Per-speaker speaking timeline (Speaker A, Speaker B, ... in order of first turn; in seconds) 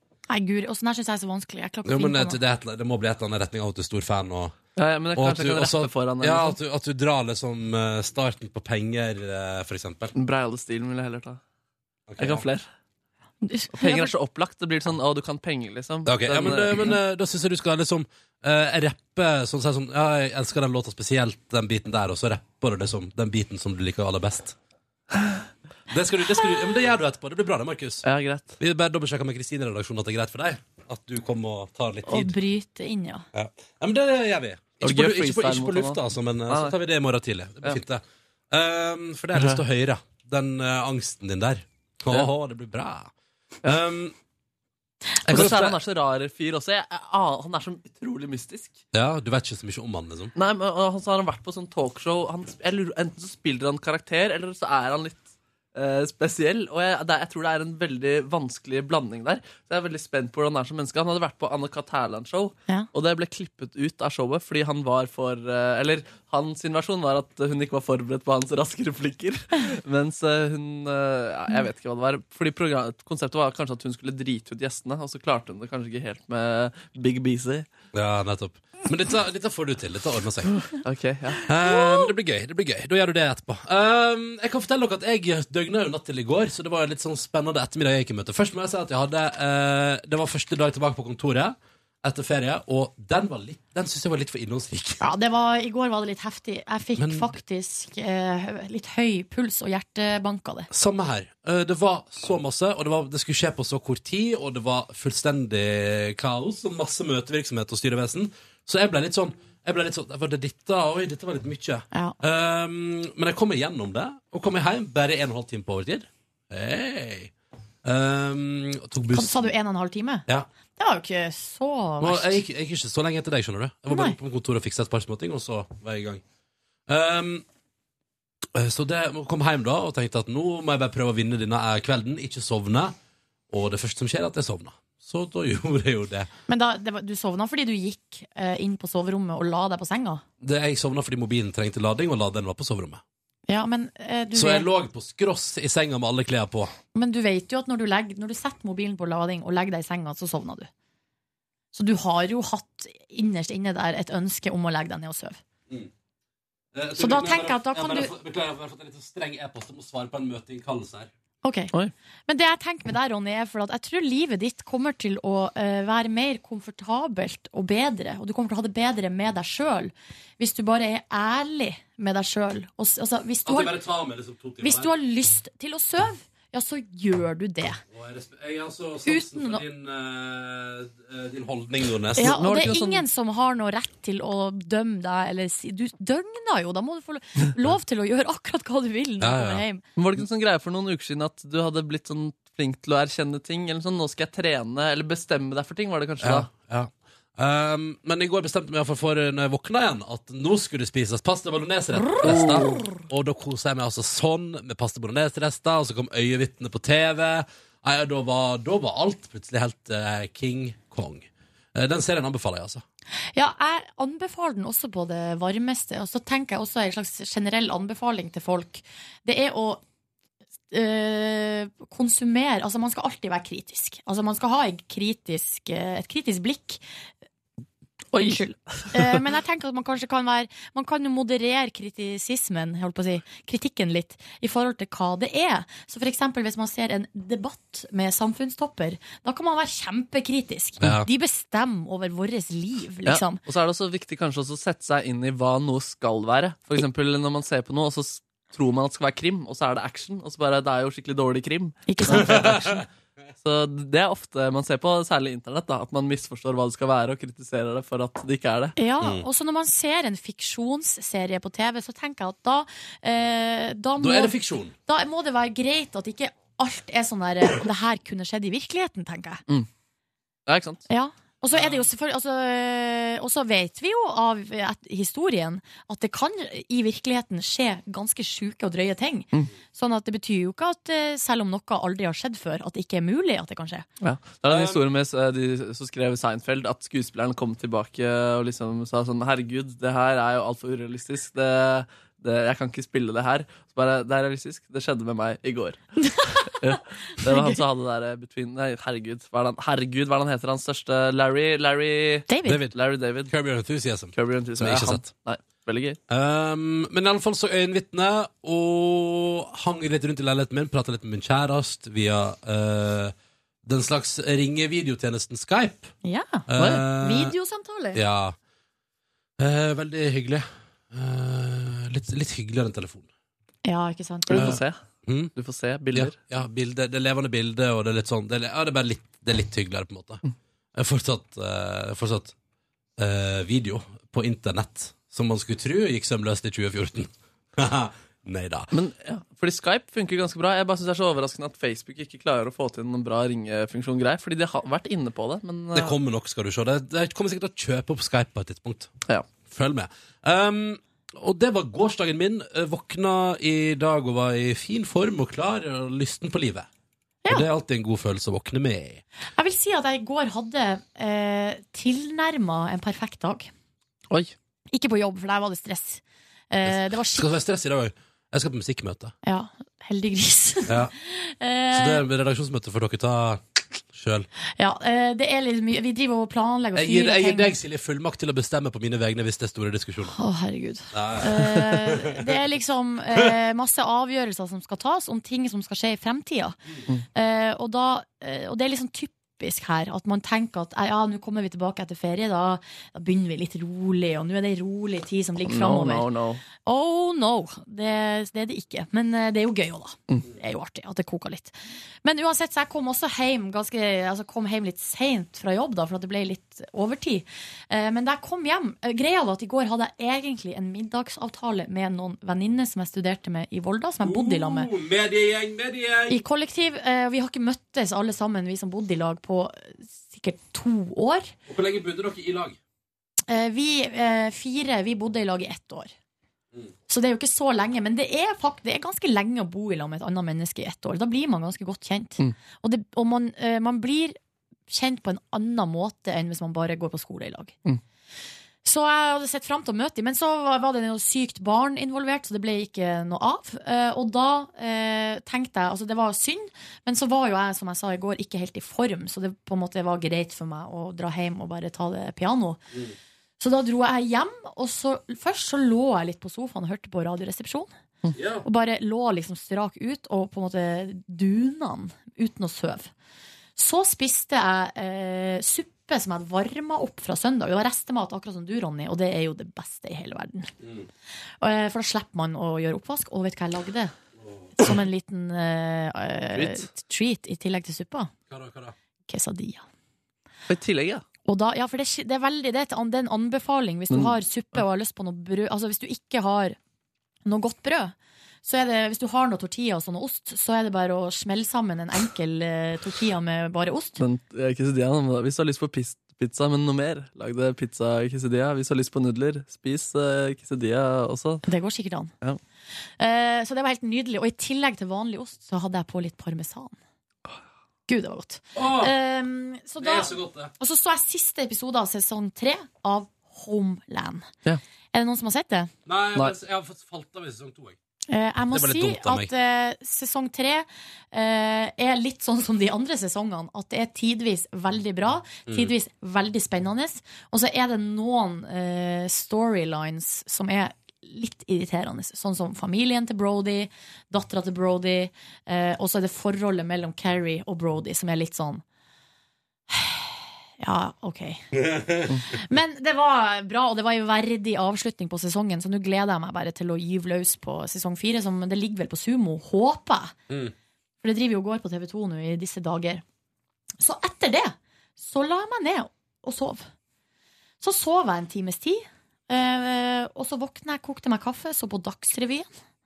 Speaker A: 0.3-2.4, 13.4-14.1, 32.0-33.2, 95.0-100.7, 119.1-120.2, 120.8-122.4, 123.9-124.2, 136.5-140.2, 143.5-144.7, 146.9-150.7, 151.7-155.4, 157.0-158.1, 161.4-161.7, 162.3-173.8, 174.6-177.8, 179.1-179.6, 182.2-189.8, 213.3-219.8, 220.7-226.8, 228.2-243.4, 251.9-252.8, 258.8-264.3, 264.9-269.4, 270.9-283.9, 296.0-296.3, 297.3-297.6, 302.3-302.6, 316.0-318.0, 323.6-324.5, 359.4-363.5, 364.7-367.3, 369.2-372.0, 374.6-377.5, 380.1-386.6, 387.1-396.1, 396.6-414.7, 416.1-421.3, 423.3-425.9, 426.9-434.2, 434.7-437.6, 438.6-452.6, 453.4-457.7, 458.4-462.9, 463.6-470.5, 471.4-473.9, 474.6-478.1, 479.1-479.6, 481.2-486.6, 487.2-494.0, 501.4-502.1, 503.0-506.8, 507.9-514.3, 514.9-515.7, 518.1-538.6, 539.7-541.5, 542.4-550.2, 551.0-553.0, 553.8-556.7, 557.6-562.5
Speaker B: 1.8-4.6, 5.1-10.1, 12.1-12.5, 16.1-24.5, 25.9-28.1, 28.6-32.4, 33.3-43.1, 43.6-44.1, 45.2-45.8, 48.9-50.3, 77.9-80.6, 81.4-95.0, 97.0-97.3, 100.7-117.3, 117.8-119.5, 122.0-126.2, 126.9-127.4, 128.5-132.9, 133.5-136.3, 140.4-143.0, 144.3-146.7, 156.7-161.1, 173.4-174.9, 177.9-182.3, 189.2-189.6, 196.2-212.8, 240.8-241.1, 252.1-252.7, 259.0-259.2, 264.0-264.7, 284.5-284.8, 302.4-302.8, 303.3-305.1, 306.1-315.9, 316.5-317.3, 317.9-318.4, 319.4-323.1, 324.3-325.3, 325.9-330.2, 330.7-332.3, 333.0-338.7, 345.7-348.9, 349.4-356.7, 357.3-359.0, 366.6-369.1, 371.7-374.3, 376.7-380.1, 380.9-382.3, 414.0-416.2, 421.5-422.6, 458.1-458.4, 474.2-474.5, 478.3-478.7, 508.5-508.9, 509.8-510.5, 515.9-517.8, 518.5-519.3, 525.5-525.7, 541.5-542.0
Speaker C: 4.8-6.6, 10.1-11.4, 12.2-12.7, 13.7-17.0, 28.0-28.5, 34.8-36.8, 39.3-39.6, 45.2-48.8, 50.4-77.7, 80.7-81.4, 182.2-183.0, 189.9-196.5, 202.2-202.8, 228.1-229.1, 243.1-252.8, 253.4-258.7, 270.5-270.8, 284.0-303.3, 304.1-306.0, 316.6-316.8, 324.3-324.8, 325.3-326.2, 338.7-345.9, 395.4-396.4, 476.3-476.7, 480.5-481.0, 483.9-484.1, 494.0-501.4